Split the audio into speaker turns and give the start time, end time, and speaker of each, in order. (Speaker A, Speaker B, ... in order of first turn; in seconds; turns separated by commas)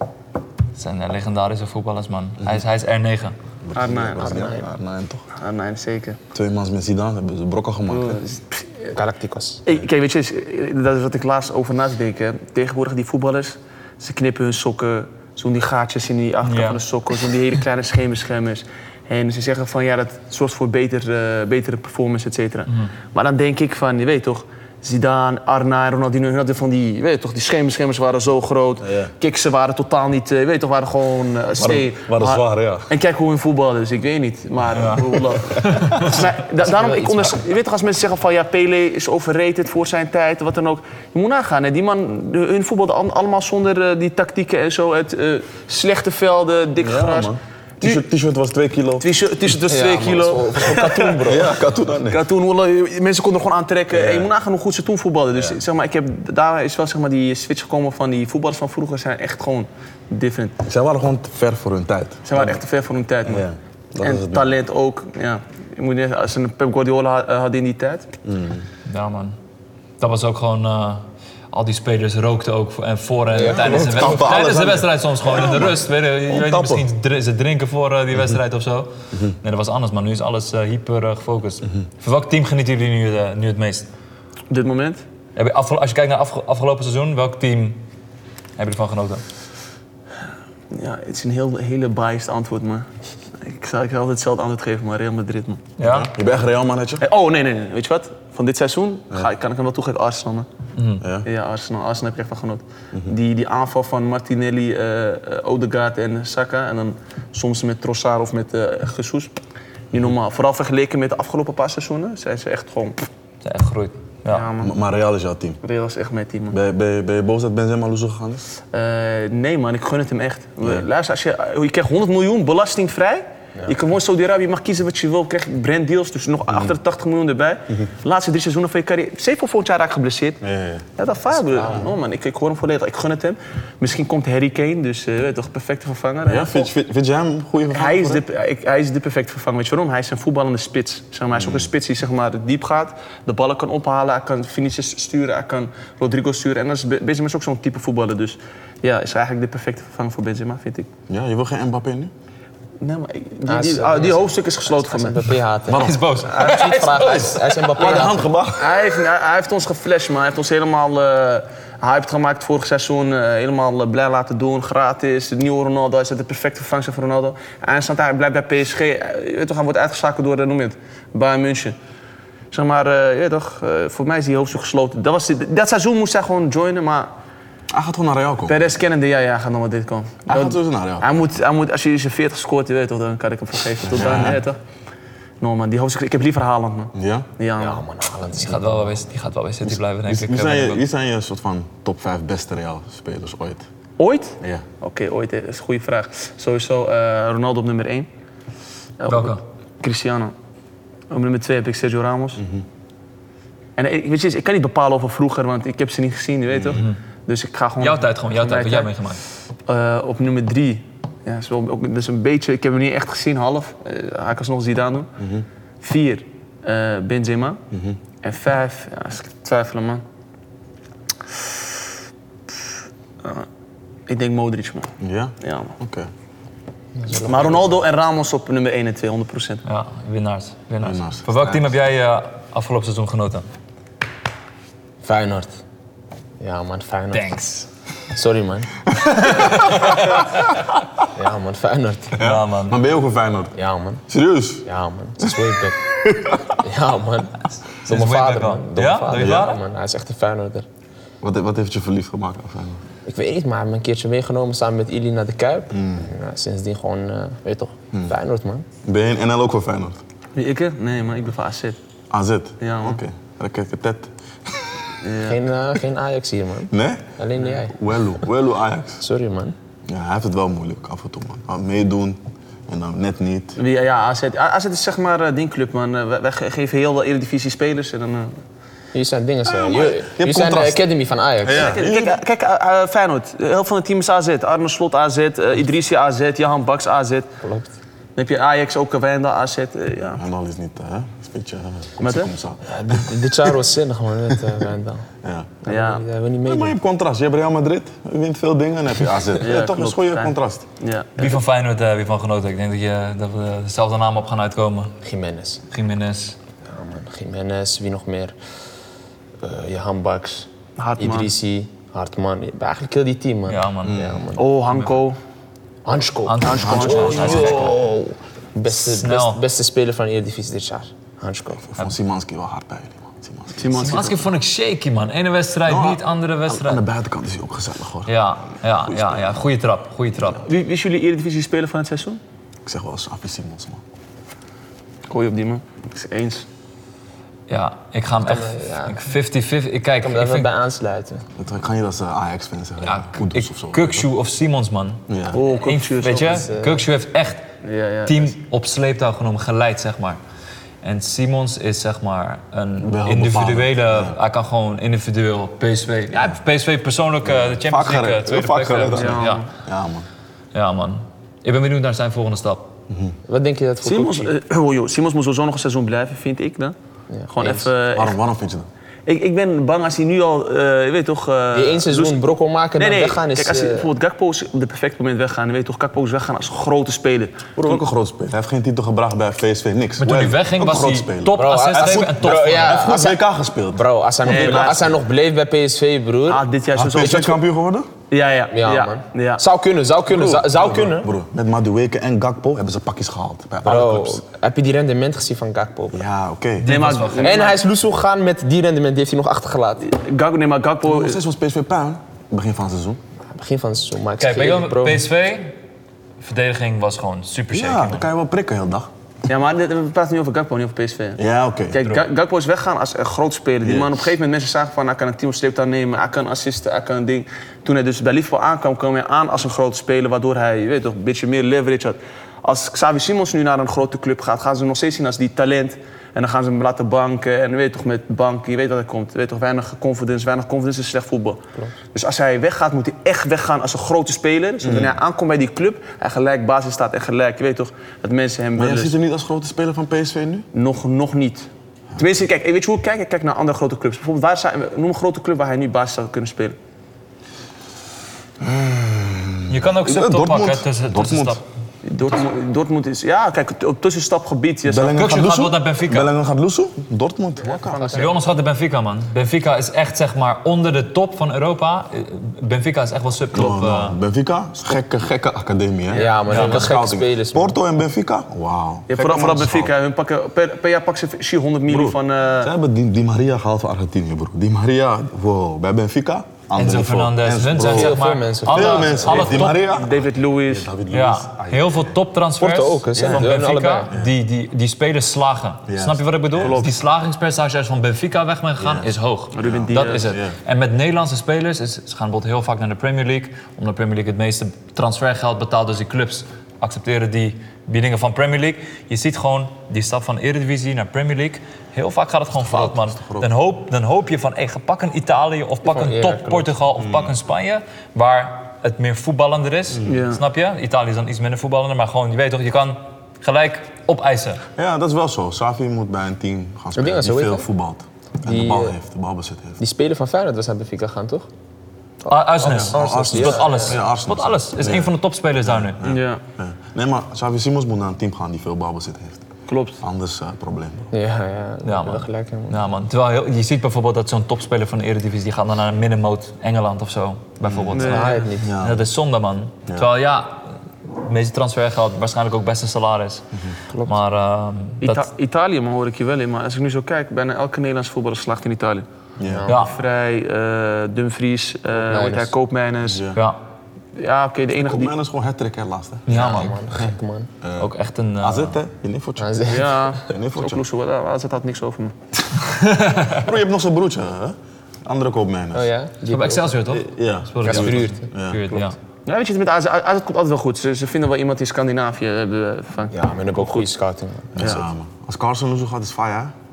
Speaker A: 0.8-3.4, Speaker B: 3.6-5.2, Speaker C: 3.8-4.3, Speaker D: 4.2-4.7, Speaker C: 5.3-6.2, Speaker B: 6.3-8.2, Speaker C: 7.9-8.9, Speaker D: 8.9-9.6, Speaker C: 9.7-48.0, Speaker A: 16.4-16.8, Speaker B: 28.8-29.1, Speaker B: 31.6-32.9, Speaker A: 34.8-35.1, Speaker A: 35.6-36.2, Speaker D: 36.6-37.4, Speaker B: 46.8-49.1, Speaker C: 49.0-51.4, Speaker D: 49.7-51.6, Speaker B: 51.2-52.3, Speaker C: 52.1-60.6, Speaker B: 53.9-54.3, Speaker B: 55.4-55.6, Speaker B: 60.6-62.6, Speaker C: 62.2-63.5, Speaker B: 63.3-64.5, Speaker C: 64.0-68.1, Speaker B: 68.2-68.7, Speaker A: 68.9-69.4, Speaker A: 70.0-83.9, Speaker D: 73.4-74.2, Speaker B: 73.4-76.8, Speaker C: 84.5-85.0, Speaker A: 85.4-87.8, Speaker A: 88.6-89.2, Speaker C: 90.7-92.9, Speaker C: 93.4-95.6, Speaker A: 95.8-96.1, Speaker B: 95.8-97.0, Speaker C: 97.0-100.5, Speaker A: 100.8-101.0, Speaker B: 101.0-101.3, Speaker C: 101.2-109.3, Speaker C: 109.9-113.1, Speaker A: 113.4-114.5, Speaker C: 114.3-114.8, Speaker B: 114.6-115.6, Speaker C: 115.6-116.6, Speaker B: 116.5-118.5, Speaker C: 118.7-130.4, Speaker B: 130.4-130.9, Speaker C: 131.0-136.7, Speaker D: 131.5-131.9, Speaker B: 136.2-138.2, Speaker C: 137.7-150.9, Speaker B: 141.3-141.7, Speaker B: 151.1-152.1, Speaker C: 152.8-155.4, Speaker D: 153.5-158.3, Speaker A: 155.7-157.7, Speaker C: 156.4-157.2, Speaker C: 157.8-171.8, Speaker B: 157.8-158.8, Speaker C: 172.5-177.1, Speaker B: 177.7-178.6, Speaker C: 178.5-184.6, Speaker B: 180.3-181.2, Speaker B: 183.8-184.4, Speaker C: 185.4-187.8, Speaker B: 186.9-187.3, Speaker D: 187.6-189.1, Speaker A: 188.3-190.8, Speaker B: 189.6-193.7, Speaker C: 194.0-198.1, Speaker B: 194.4-194.7, Speaker C: 199.0-200.3, Speaker A: 199.1-199.4, Speaker C: 201.1-202.4, Speaker B: 202.4-202.7, Speaker C: 203.8-208.9, Speaker B: 206.5-206.8, Speaker A: 207.8-209.2, Speaker C: 209.7-215.1, Speaker B: 215.2-215.5, Speaker C: 215.8-217.6, Speaker B: 217.7-218.0, Speaker C: 218.2-220.0, Speaker C: 224.1-225.8, Speaker B: 225.0-226.1, Speaker D: 227.0-227.8, Speaker C: 227.2-229.6, Speaker A: 229.7-233.5, Speaker B: 230.8-231.7, Speaker D: 235.0-235.6, Speaker D: 236.4-237.3, Speaker A: 237.1-237.7, Speaker D: 238.1-238.8, Speaker B: 238.9-240.0, Speaker A: 239.3-240.4, Speaker D: 241.1-242.2, Speaker B: 242.2-243.6, Speaker A: 242.2-242.8, Speaker D: 243.6-244.0, Speaker B: 244.1-244.7, Speaker D: 244.7-245.9, Speaker B: 245.2-246.6, Speaker D: 246.5-250.7, Speaker A: 247.8-249.6, Speaker B: 249.2-249.5, Speaker B: 251.2-252.8, Speaker D: 253.1-258.7, Speaker B: 255.7-256.1, Speaker B: 258.9-260.0, Speaker C: 260.4-261.8, Speaker B: 262.1-264.9, Speaker C: 262.6-263.0, Speaker C: 265.0-265.4, Speaker D: 265.2-267.8, Speaker B: 266.7-269.0, Speaker D: 269.0-269.6, Speaker B: 269.9-273.6, Speaker C: 273.6-278.4, Speaker D: 278.9-281.8, Speaker B: 279.4-280.8, Speaker B: 281.4-282.2, Speaker C: 281.5-287.3, Speaker D: 287.4-287.7, Speaker C: 288.2-290.2, Speaker B: 290.1-293.5, Speaker C: 292.0-292.3, Speaker D: 292.7-295.1, Speaker B: 295.2-295.5, Speaker D: 295.6-296.8, Speaker C: 295.7-296.1, Speaker B: 296.4-300.6, Speaker C: 299.4-301.4, Speaker A: 301.2-304.9, Speaker D: 305.0-305.6, Speaker A: 305.7-306.4, Speaker D: 306.6-308.4, Speaker D: 309.4-310.5, Speaker C: 310.8-311.3, Speaker D: 311.0-314.5, Speaker A: 313.5-314.0, Speaker B: 313.9-314.2, Speaker C: 314.4-315.2, Speaker D: 315.9-321.7, Speaker A: 316.2-317.8, Speaker C: 316.4-317.8, Speaker B: 316.9-317.5, Speaker A: 318.7-319.4, Speaker B: 321.6-323.7, Speaker C: 323.6-324.3, Speaker A: 323.7-326.9, Speaker B: 325.7-328.1, Speaker A: 328.1-330.4, Speaker B: 328.8-329.4, Speaker C: 330.4-332.2, Speaker B: 332.6-333.8, Speaker C: 335.1-336.4, Speaker A: 337.5-340.5, Speaker D: 338.2-339.0, Speaker D: 340.0-341.2, Speaker B: 341.4-344.1, Speaker A: 342.8-347.4, Speaker B: 345.1-345.4, Speaker C: 345.3-346.5, Speaker D: 346.1-346.9, Speaker C: 347.6-348.3, Speaker A: 348.1-350.2, Speaker A: 350.8-359.4, Speaker B: 352.8-354.2, Speaker B: 357.2-360.1, Speaker C: 358.9-359.5, Speaker A: 360.5-362.7, Speaker B: 362.9-363.2, Speaker D: 363.3-364.3, Speaker C: 363.8-366.8, Speaker D: 367.1-367.7, Speaker C: 367.3-368.2, Speaker B: 367.9-368.7, Speaker C: 369.1-377.8, Speaker D: 371.5-373.9, Speaker B: 377.6-384.9, Speaker A: 380.0-382.8, Speaker D: 381.3-386.4, Speaker C: 384.2-384.9, Speaker C: 386.3-387.4, Speaker B: 386.8-387.9, Speaker C: 388.1-389.4, Speaker D: 388.5-391.1, Speaker B: 390.1-394.2, Speaker D: 393.6-396.0, Speaker B: 395.9-396.8, Speaker A: 396.6-397.4, Speaker C: 396.6-397.6, Speaker D: 397.2-399.9, Speaker C: 399.8-401.2, Speaker B: 400.9-403.0, Speaker D: 403.3-405.1, Speaker A: 404.2-405.6, Speaker A: 406.2-408.1, Speaker B: 407.5-408.9, Speaker C: 409.3-431.4, Speaker B: 411.2-411.8, Speaker B: 413.6-414.1, Speaker C: 431.9-438.9, Speaker B: 434.6-435.0, Speaker B: 438.6-440.5, Speaker C: 440.5-446.6, Speaker B: 448.4-451.4, Speaker A: 449.5-451.4, Speaker C: 451.8-455.0, Speaker B: 454.7-458.1, Speaker A: 454.9-456.1, Speaker C: 457.5-458.2, Speaker D: 457.7-458.2, Speaker A: 457.9-464.0, Speaker B: 463.3-469.7, Speaker C: 465.9-466.2, Speaker D: 465.9-467.6, Speaker A: 466.3-466.7, Speaker C: 468.9-472.5, Speaker B: 471.7-482.0, Speaker A: 476.6-479.6, Speaker D: 477.6-479.4, Speaker C: 479.2-480.7, Speaker A: 480.9-514.4, Speaker D: 482.4-483.9, Speaker B: 482.9-484.1, Speaker B: 485.7-486.7, Speaker B: 488.6-490.4, Speaker C: 489.3-490.1, Speaker B: 502.3-503.3, Speaker D: 505.6-506.6, Speaker B: 506.8-507.1, Speaker B: 509.8-510.0, Speaker C: 509.8-510.2, Speaker B: 514.6-519.6, Speaker D: 516.8-517.5, Speaker D: 518.2-518.8, Speaker D: 519.6-521.3, Speaker A: 522.1-525.8, Speaker D: 522.1-523.8, Speaker B: 522.4-524.9, Speaker B: 525.5-529.2, Speaker C: 525.8-526.2, Speaker C: 529.5-529.8, Speaker B: 529.8-530.9, Speaker D: 530.9-532.6, Speaker A: 531.6-543.3, Speaker B: 537.4-537.8, Speaker C: 537.7-538.3, Speaker D: 537.8-538.5, Speaker B: 538.4-538.9, Speaker D: 543.7-544.0, Speaker A: 543.8-545.1, Speaker C: 544.8-548.9, Speaker B: 549.2-549.5, Speaker D: 549.2-549.6, Speaker A: 549.5-549.7, Speaker C: 549.5-553.1, Speaker D: 551.8-552.3, Speaker B: 552.9-553.2, Speaker C: 554.0-554.9, Speaker B: 554.5-560.6, Speaker A: 556.1-556.6, Speaker D: 556.1-557.3, Speaker A: 557.6-558.6, Speaker D: 559.2-559.8, Speaker C: 559.5-562.0, Speaker A: 562.5-563.2, Speaker B: 563.1-565.7, Speaker D: 565.5-566.6, Speaker A: 566.0-568.8, Speaker B: 566.7-568.5, Speaker D: 567.4-568.7, Speaker C: 569.1-573.7, Speaker D: 572.9-574.5, Speaker B: 574.4-576.3, Speaker C: 574.4-574.6